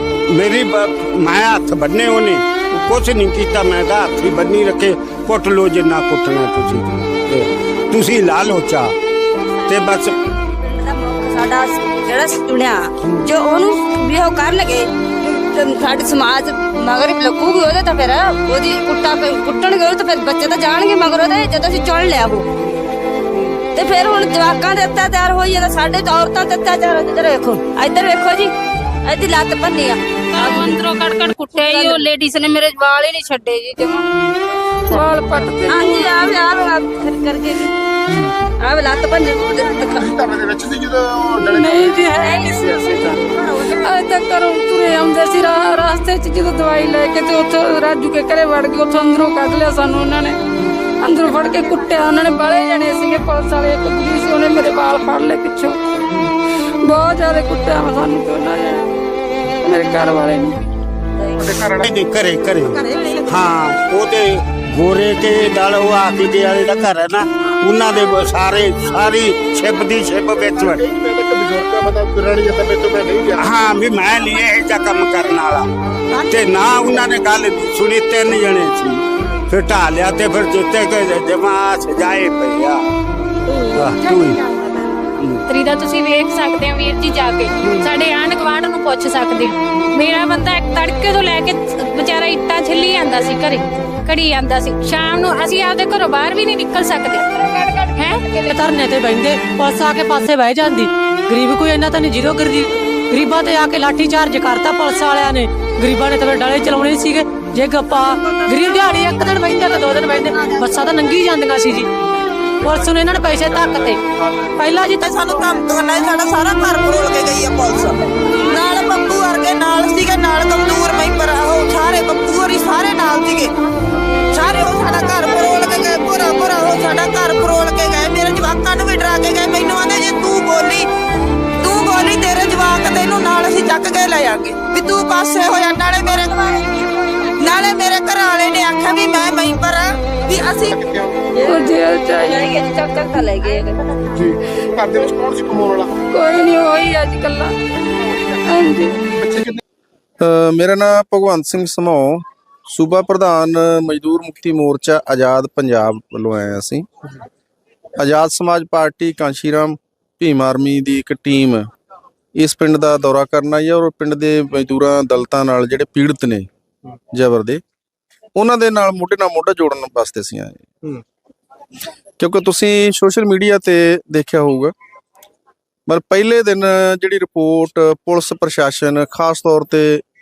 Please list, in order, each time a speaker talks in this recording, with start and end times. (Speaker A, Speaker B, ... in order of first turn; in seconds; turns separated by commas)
Speaker A: 0.3-8.9, Speaker A: 9.7-10.1, Speaker B: 9.7-10.0, Speaker B: 10.6-22.5, Speaker B: 23.7-28.5, Speaker B: 29.0-30.8, Speaker C: 30.4-34.1, Speaker B: 31.4-33.2, Speaker D: 31.6-31.9, Speaker C: 34.9-36.3, Speaker B: 35.7-37.7, Speaker B: 38.6-40.2, Speaker E: 40.2-41.6, Speaker C: 41.4-50.4, Speaker B: 42.2-42.6, Speaker B: 43.4-43.7, Speaker C: 51.0-55.8, Speaker C: 56.8-58.9, Speaker C: 59.6-60.6, Speaker E: 61.5-61.9, Speaker A: 61.5-70.8, Speaker E: 70.4-73.4, Speaker A: 73.3-75.7, Speaker A: 76.3-82.8, Speaker A: 83.7-84.4, Speaker A: 85.2-85.4, Speaker D: 85.5-98.5, Speaker F: 98.5-111.9, Speaker F: 112.6-114.0, Speaker F: 114.5-115.1, Speaker G: 114.9-123.5, Speaker G: 124.3-130.9, Speaker G: 131.6-136.7, Speaker G: 137.4-140.8, Speaker E: 140.9-141.1, Speaker B: 141.3-144.1, Speaker C: 141.4-142.5, Speaker E: 144.1-145.9, Speaker C: 146.1-147.5, Speaker C: 148.4-149.0, Speaker E: 149.2-149.6, Speaker H: 150.2-156.9, Speaker H: 158.0-161.7, Speaker H: 162.3-166.5, Speaker H: 167.1-167.6, Speaker H: 168.4-170.6, Speaker H: 172.2-174.7, Speaker H: 175.9-180.0